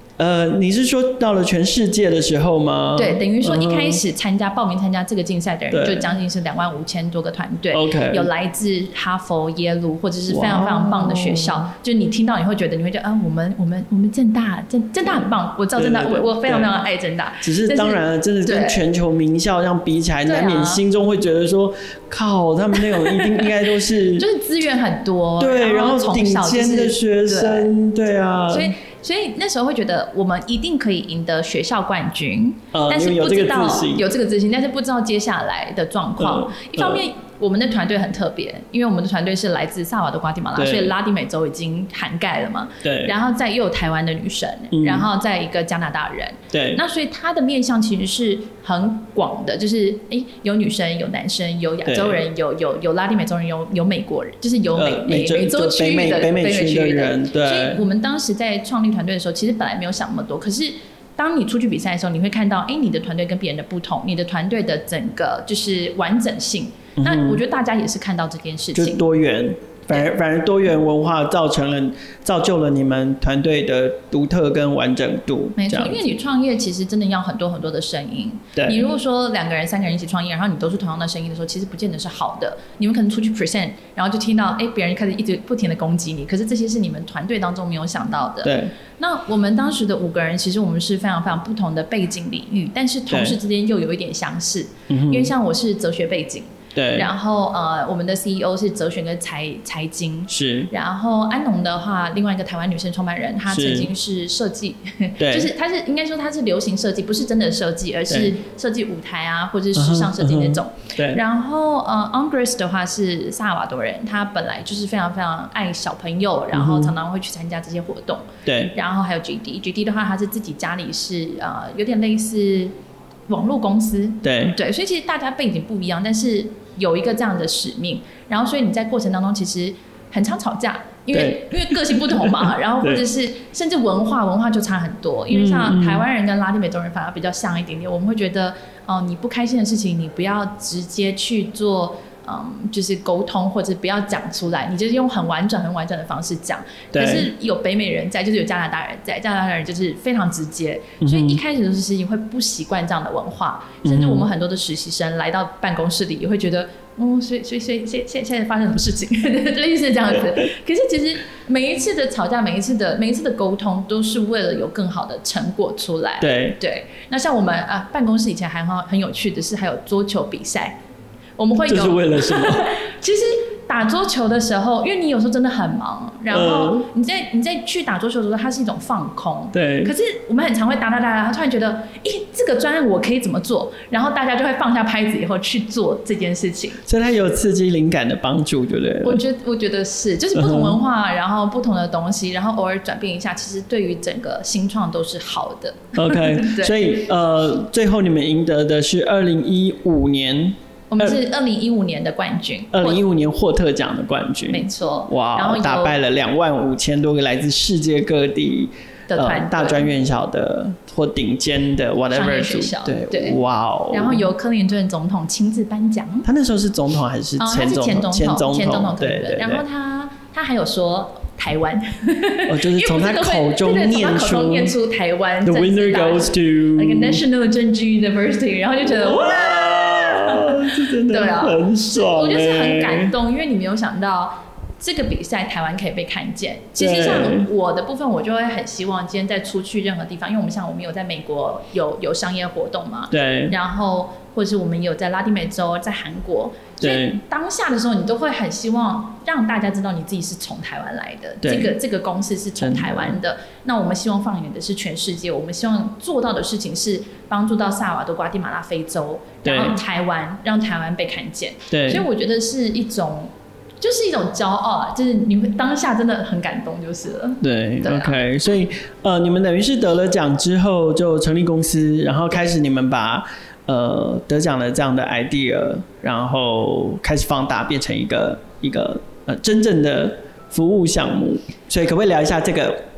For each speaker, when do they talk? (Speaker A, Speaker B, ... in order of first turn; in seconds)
Speaker A: 0.2-4.0, 5.7-6.1, 7.7-8.3, 10.3-11.7, 15.8-16.7, 17.4-24.3, 25.4-28.7, 32.7-34.0, 36.2-37.0, 40.6-40.9, 42.8-43.1, 44.7-45.1, 46.5-46.8, 51.9-52.2, 54.7-57.8, 67.0-67.4, 68.8-76.0, 78.5-78.8, 88.4-88.7, 93.1-93.4, 94.9-95.3, 96.8-97.1, 100.3-100.7, 103.5-103.9, 105.2-105.5, 108.1-108.3, 109.8-111.2, 116.5-116.9, 118.5-118.7, 124.2-124.6, 131.1-133.0, 135.3-136.1, 146.9-147.3, 151.0-151.4, 153.8-154.3, 166.2-166.6, 171.7-172.7, 176.3-176.9, 179.5-179.9, 186.9-189.2, 190.3-190.8, 195.9-201.2, 202.7-214.3, 216.2-219.6, 222.5-224.8, 225.4-227.2, 228.8-233.1, 236.8-237.5, 243.1-243.6, 246.8-247.2, 251.4-251.8, 252.6-253.2, 259.4-259.8, 261.7-262.1, 267.4-282.8
Speaker B: 3.0-18.8, 20.3-20.8, 22.9-23.4, 24.2-27.7, 28.5-69.0, 75.6-122.7, 123.3-170.8, 171.4-186.8, 189.0-196.9, 200.9-203.0, 204.5-206.0, 209.1-209.9, 212.1-213.4, 213.9-216.3, 217.4-268.2